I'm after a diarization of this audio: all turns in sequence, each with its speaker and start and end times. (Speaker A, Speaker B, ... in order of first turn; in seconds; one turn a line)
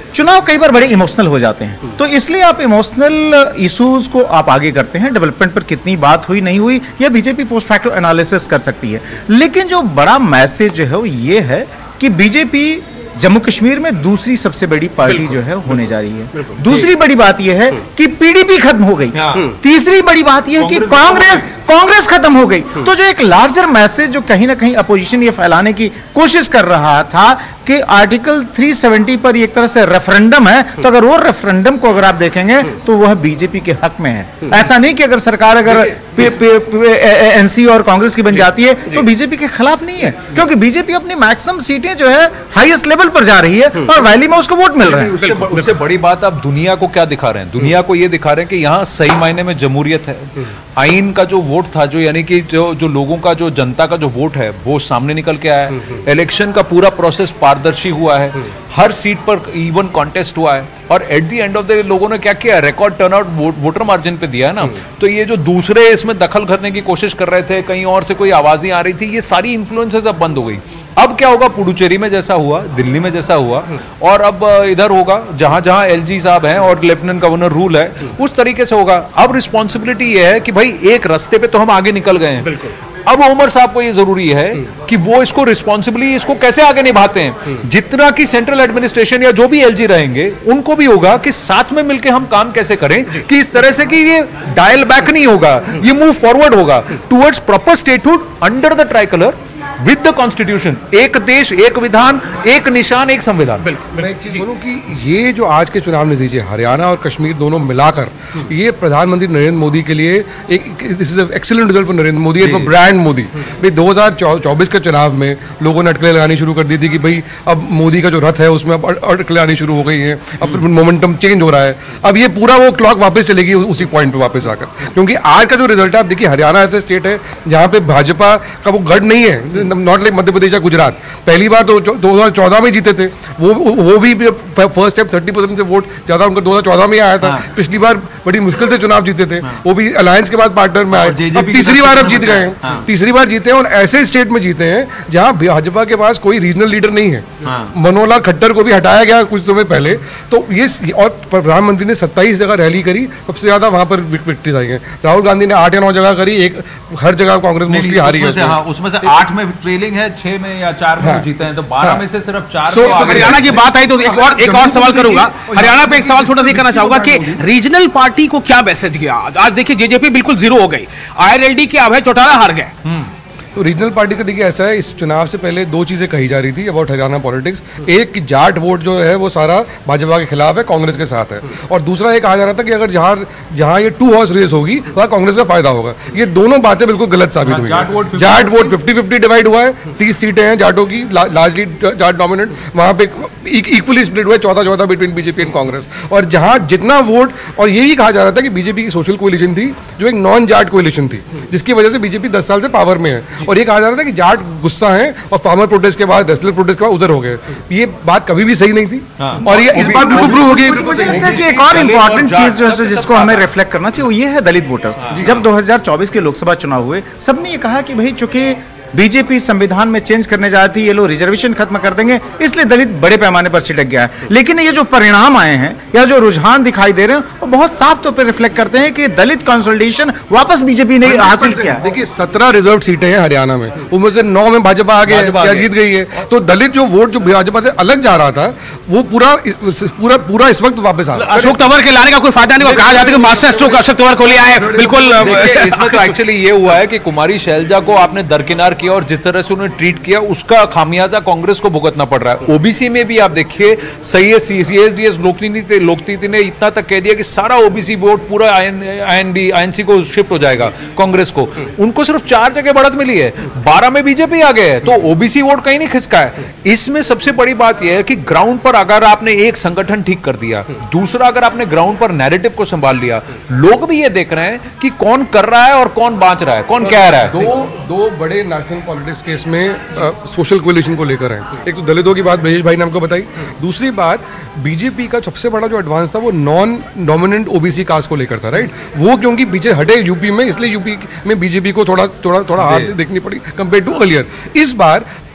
Speaker A: 0.1-45.2
Speaker B: 15.1-15.3
Speaker C: 19.1-19.5
Speaker C: 20.6-21.5
Speaker C: 35.7-36.3
Speaker C: 44.8-103.8
Speaker B: 45.2-45.7
Speaker B: 103.7-104.4
Speaker D: 104.0-158.6
Speaker C: 112.4-112.7
Speaker C: 140.9-142.9
Speaker C: 147.4-147.7
Speaker C: 157.7-163.7
Speaker D: 161.0-162.1
Speaker D: 162.7-163.6
Speaker B: 162.7-172.7
Speaker D: 164.1-167.4
Speaker D: 173.6-211.4
Speaker C: 187.4-188.8
Speaker C: 209.2-213.5
Speaker A: 209.9-231.8
Speaker C: 215.1-215.5
Speaker D: 231.0-241.5
Speaker C: 235.1-235.7
Speaker B: 241.2-246.1
Speaker C: 242.6-243.7
Speaker C: 244.4-277.5
Speaker D: 277.2-295.1
Speaker C: 292.6-292.9